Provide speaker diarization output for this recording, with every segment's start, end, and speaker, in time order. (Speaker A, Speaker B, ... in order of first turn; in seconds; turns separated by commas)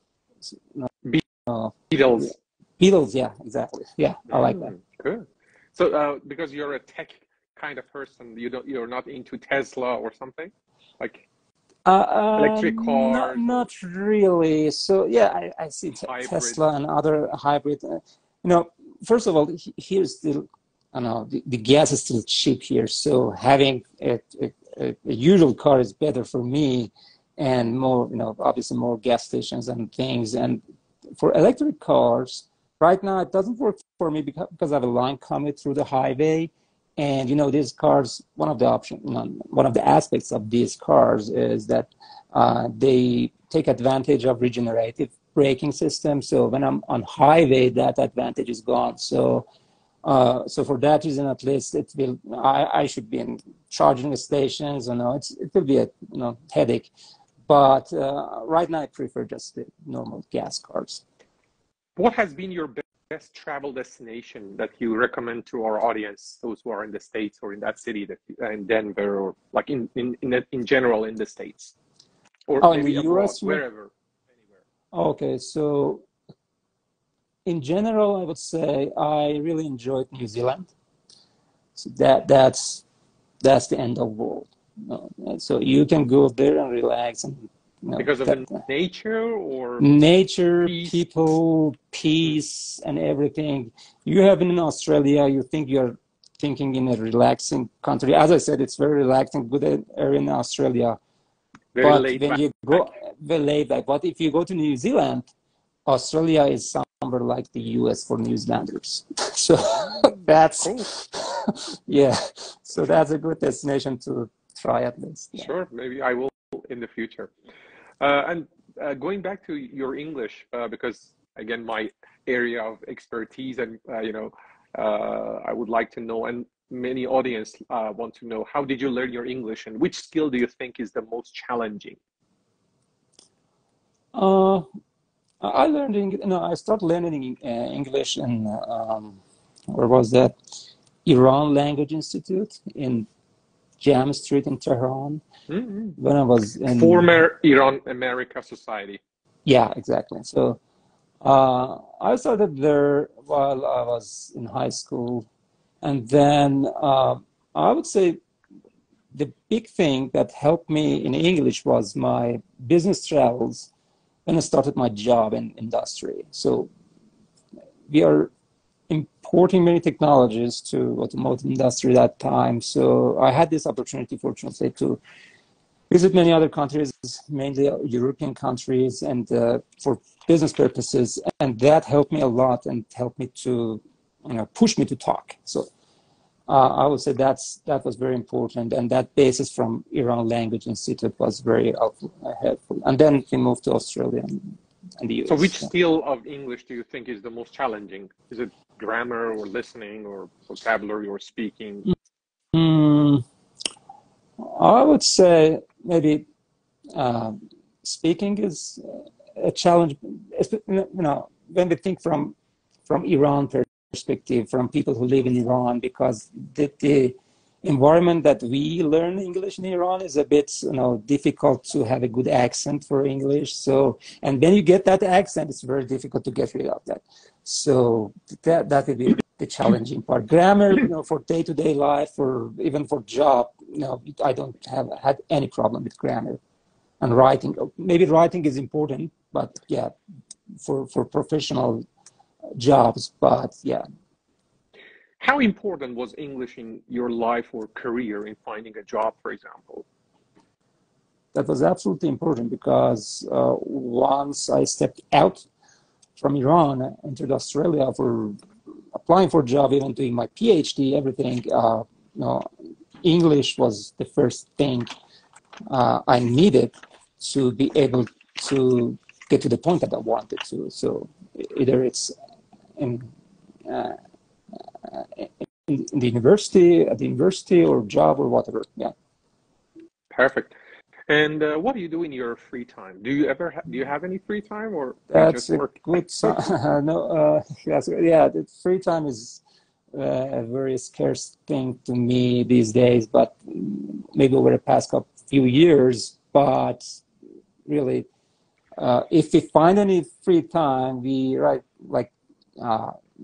Speaker A: 0.4-0.9, Speaker A: 1.4-4.7, Speaker B: 1.9-2.3, Speaker B: 4.3-11.2, Speaker A: 11.8-30.6, Speaker B: 12.3-13.6, Speaker B: 15.9-16.6, Speaker A: 31.1-49.5, Speaker A: 50.0-56.9, Speaker A: 57.5-61.0, Speaker B: 62.0-71.7, Speaker B: 72.5-73.9, Speaker A: 72.6-73.6, Speaker A: 74.9-76.0, Speaker A: 77.5-80.7, Speaker A: 81.8-82.8, Speaker A: 83.4-88.5, Speaker B: 88.0-89.9, Speaker A: 89.8-101.0, Speaker B: 90.6-91.0, Speaker B: 101.7-102.8, Speaker A: 101.8-105.3, Speaker A: 105.8-115.5, Speaker B: 109.8-110.9, Speaker B: 115.3-117.3, Speaker B: 118.0-132.0, Speaker A: 134.1-134.6, Speaker A: 135.4-140.3, Speaker A: 141.0-143.1, Speaker A: 143.8-145.2, Speaker B: 145.5-146.0, Speaker A: 146.0-147.2, Speaker B: 146.7-149.0, Speaker A: 149.4-150.6, Speaker A: 151.2-155.3, Speaker A: 155.8-158.2, Speaker A: 159.1-163.7, Speaker A: 164.2-166.7, Speaker A: 167.9-168.3, Speaker A: 168.9-175.0, Speaker A: 175.9-185.7, Speaker A: 186.5-195.7, Speaker B: 195.2-201.9, Speaker A: 202.5-203.2, Speaker A: 204.4-206.2, Speaker A: 206.9-212.3, Speaker A: 212.9-236.4, Speaker A: 237.0-239.9, Speaker A: 240.6-241.8, Speaker A: 242.6-243.8, Speaker B: 245.2-249.8, Speaker A: 251.3-255.4, Speaker A: 256.2-258.4, Speaker A: 258.9-262.5, Speaker A: 263.0-264.9, Speaker A: 265.7-272.1, Speaker A: 272.8-273.1, Speaker A: 273.6-274.0, Speaker A: 274.8-278.9, Speaker B: 280.1-280.5, Speaker B: 281.1-286.4, Speaker A: 285.1-289.4, Speaker A: 289.9-297.0, Speaker A: 297.7-298.1, Speaker A: 298.8-303.0